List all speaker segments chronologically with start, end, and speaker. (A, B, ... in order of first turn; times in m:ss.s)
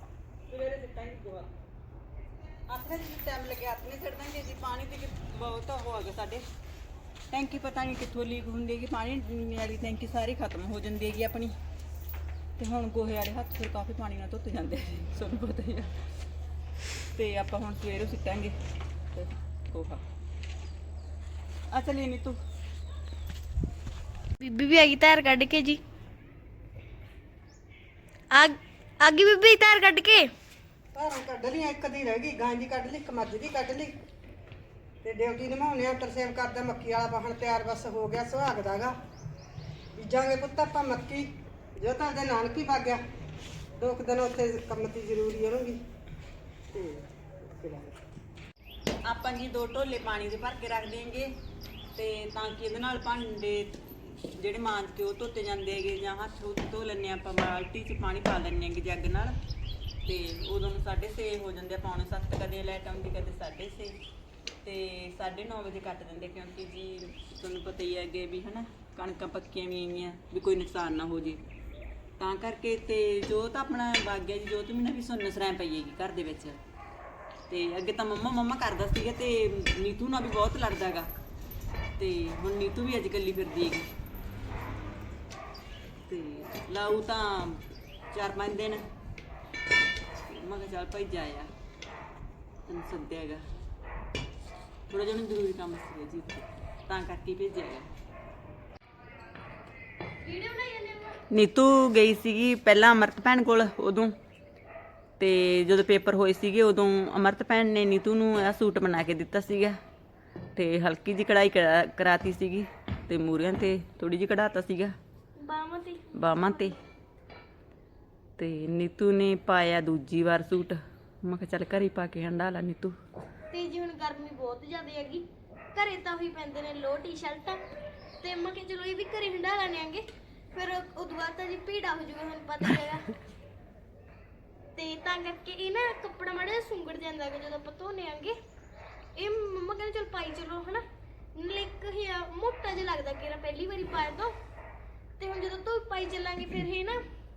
0:00.5-0:01.5 A
0:02.7-0:06.4 A
0:07.3-0:11.6 A
0:12.6-0:15.9 A
0:17.2-0:18.6 A
0:19.1-0:20.0 A
0:21.7-0:22.4 A
0:24.4-0:25.8 B
0:28.3-0:30.3 B
0:31.0-0:33.9 C
0:35.0-0:39.0 C
0:40.0-0:43.0 C
0:43.8-0:45.8 C
0:46.7-0:48.0 C
0:49.0-0:51.3 A
0:52.0-0:59.4 A
1:00.0-1:04.0 A
1:04.6-1:11.4 A
1:12.2-1:16.6 A
1:17.5-1:21.1 A
1:22.0-1:23.9 A
1:26.1-1:28.8 A
1:30.3-1:31.5 A
1:32.7-1:33.4 A
1:34.9-1:37.9 A
1:40.2-1:41.2 B
1:41.3-1:44.2 A
1:45.2-1:49.8 A
1:50.6-1:55.0 A
1:55.4-1:56.7 B
1:56.2-1:56.8 A
1:58.4-2:03.0 A
2:03.5-2:07.6 B
2:08.2-2:13.1 B
2:14.8-2:18.4 B
2:19.2-2:20.8 B
2:21.4-2:24.3 B
2:25.2-2:27.0 B